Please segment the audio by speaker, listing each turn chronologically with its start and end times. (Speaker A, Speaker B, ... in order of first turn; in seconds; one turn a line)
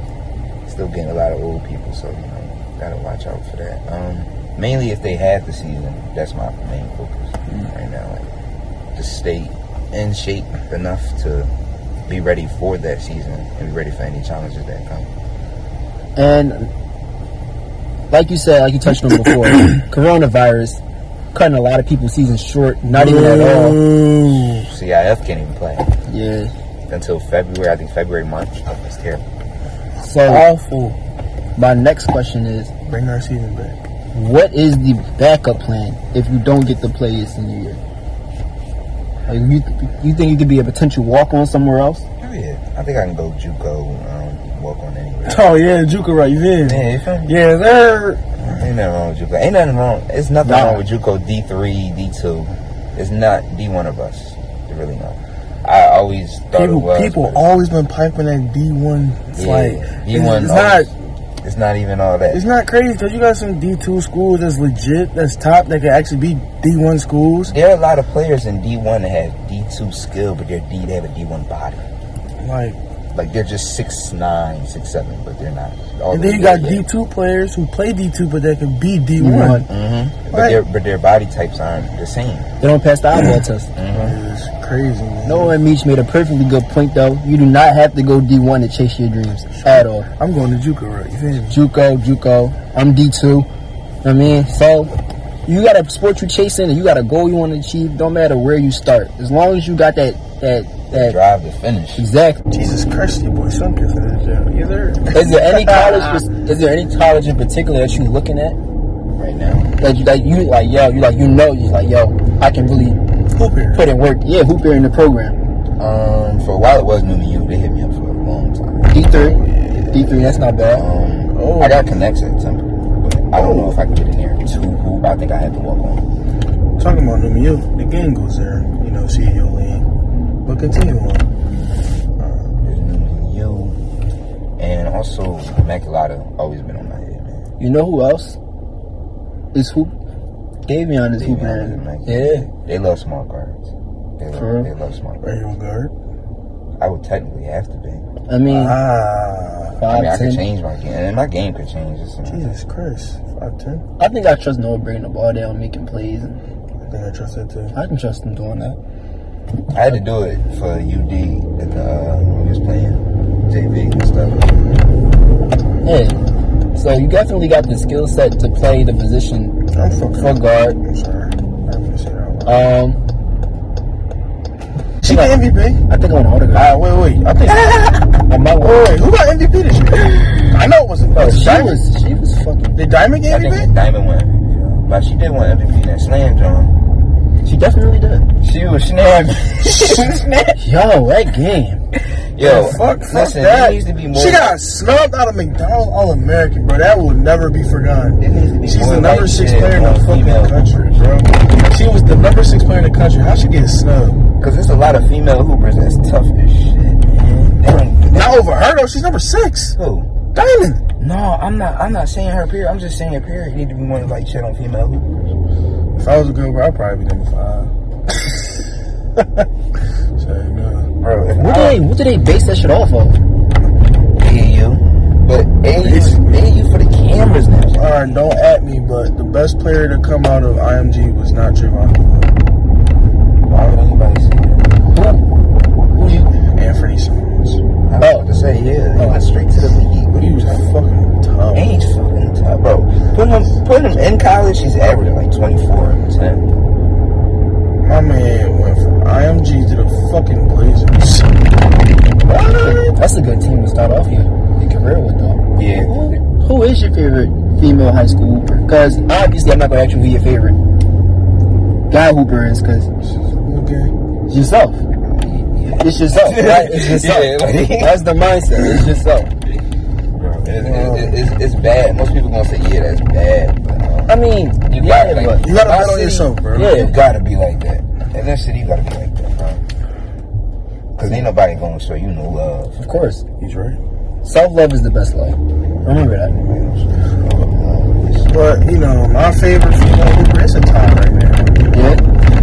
Speaker A: 0.7-8.3
Speaker A: 8.9-11.5
Speaker A: 12.1-15.1
Speaker B: 16.2-16.7
Speaker B: 18.1-20.8
Speaker B: 21.3-23.8
Speaker C: 22.9-24.7
Speaker A: 24.5-25.9
Speaker B: 26.1-26.5
Speaker A: 26.9-29.2
Speaker B: 30.0-30.5
Speaker C: 30.3-31.0
Speaker B: 31.6-32.7
Speaker C: 32.9-33.8
Speaker B: 34.1-37.8
Speaker B: 39.3-42.0
Speaker A: 42.2-45.5
Speaker C: 45.3-48.4
Speaker A: 46.6-47.3
Speaker A: 48.4-57.5
Speaker B: 50.4-50.8
Speaker C: 56.5-60.9
Speaker A: 59.3-60.9
Speaker A: 61.4-62.4
Speaker C: 62.3-67.6
Speaker A: 67.5-71.8
Speaker C: 72.4-72.8
Speaker A: 73.1-76.8
Speaker C: 76.1-79.7
Speaker B: 79.2-79.7
Speaker A: 79.7-82.5
Speaker C: 80.3-80.6
Speaker B: 82.6-83.7
Speaker A: 83.8-84.2
Speaker C: 83.9-85.6
Speaker B: 85.2-90.1
Speaker C: 89.6-91.6
Speaker B: 91.5-93.5
Speaker B: 94.0-94.9
Speaker B: 95.5-101.2
Speaker A: 100.9-102.1
Speaker B: 102.0-102.4
Speaker C: 102.5-106.2
Speaker B: 105.1-108.6
Speaker A: 109.2-109.7
Speaker B: 109.8-113.0
Speaker C: 113.3-113.9
Speaker B: 113.7-115.4
Speaker A: 115.8-119.0
Speaker B: 118.9-119.4
Speaker C: 119.0-120.2
Speaker B: 119.9-120.8
Speaker A: 120.7-126.0
Speaker C: 121.3-121.9
Speaker C: 123.3-123.8
Speaker C: 126.8-129.9
Speaker C: 130.4-131.3
Speaker C: 132.2-132.5
Speaker A: 132.6-133.8
Speaker A: 134.6-137.5
Speaker B: 137.6-138.4
Speaker B: 139.5-139.9
Speaker B: 140.7-142.5
Speaker A: 141.2-145.4
Speaker B: 144.3-144.7
Speaker C: 145.2-145.9
Speaker A: 146.8-148.1
Speaker B: 148.3-148.8
Speaker C: 148.5-149.9
Speaker B: 149.8-150.4
Speaker A: 149.9-152.5
Speaker C: 152.2-153.8
Speaker B: 154.0-156.4
Speaker C: 156.8-157.8
Speaker B: 157.7-158.8
Speaker A: 159.7-164.7
Speaker B: 165.8-166.2
Speaker B: 166.7-169.6
Speaker C: 169.7-172.7
Speaker B: 170.2-170.8
Speaker B: 172.4-173.0
Speaker C: 175.0-175.8
Speaker B: 175.0-176.7
Speaker C: 176.5-177.8
Speaker A: 177.5-178.1
Speaker B: 178.3-179.0
Speaker C: 178.6-181.8
Speaker B: 181.2-182.8
Speaker C: 182.8-183.7
Speaker A: 183.3-186.8
Speaker B: 187.4-188.3
Speaker A: 188.4-190.6
Speaker B: 190.6-191.8
Speaker A: 192.3-194.6
Speaker C: 192.4-200.9
Speaker A: 198.2-201.5
Speaker C: 201.6-204.2
Speaker A: 204.4-208.5
Speaker C: 208.1-209.8
Speaker A: 209.8-210.1
Speaker C: 210.3-210.8
Speaker A: 211.0-215.3
Speaker C: 216.0-218.5
Speaker C: 219.2-219.4
Speaker C: 220.2-220.9
Speaker A: 221.0-221.8
Speaker B: 221.4-223.2
Speaker A: 224.2-228.2
Speaker C: 225.8-226.4
Speaker C: 227.8-232.3
Speaker A: 233.5-234.7
Speaker B: 234.9-235.2
Speaker B: 235.9-236.3
Speaker C: 236.4-237.6
Speaker A: 237.8-240.7
Speaker B: 238.0-238.3
Speaker B: 239.0-239.2
Speaker C: 240.2-241.7
Speaker A: 241.5-246.5
Speaker C: 247.8-251.3
Speaker B: 252.3-260.6
Speaker A: 255.5-256.0
Speaker B: 261.9-262.9
Speaker C: 263.0-263.9
Speaker B: 264.3-264.8
Speaker A: 265.0-268.0
Speaker B: 265.8-269.3
Speaker A: 270.1-279.6
Speaker C: 270.6-271.2
Speaker B: 274.1-275.4
Speaker C: 275.4-276.9
Speaker B: 276.5-277.0
Speaker A: 281.0-282.8
Speaker B: 282.8-283.2
Speaker C: 283.4-283.8
Speaker B: 284.2-286.3
Speaker A: 285.8-288.4
Speaker C: 288.3-291.8
Speaker B: 291.7-292.0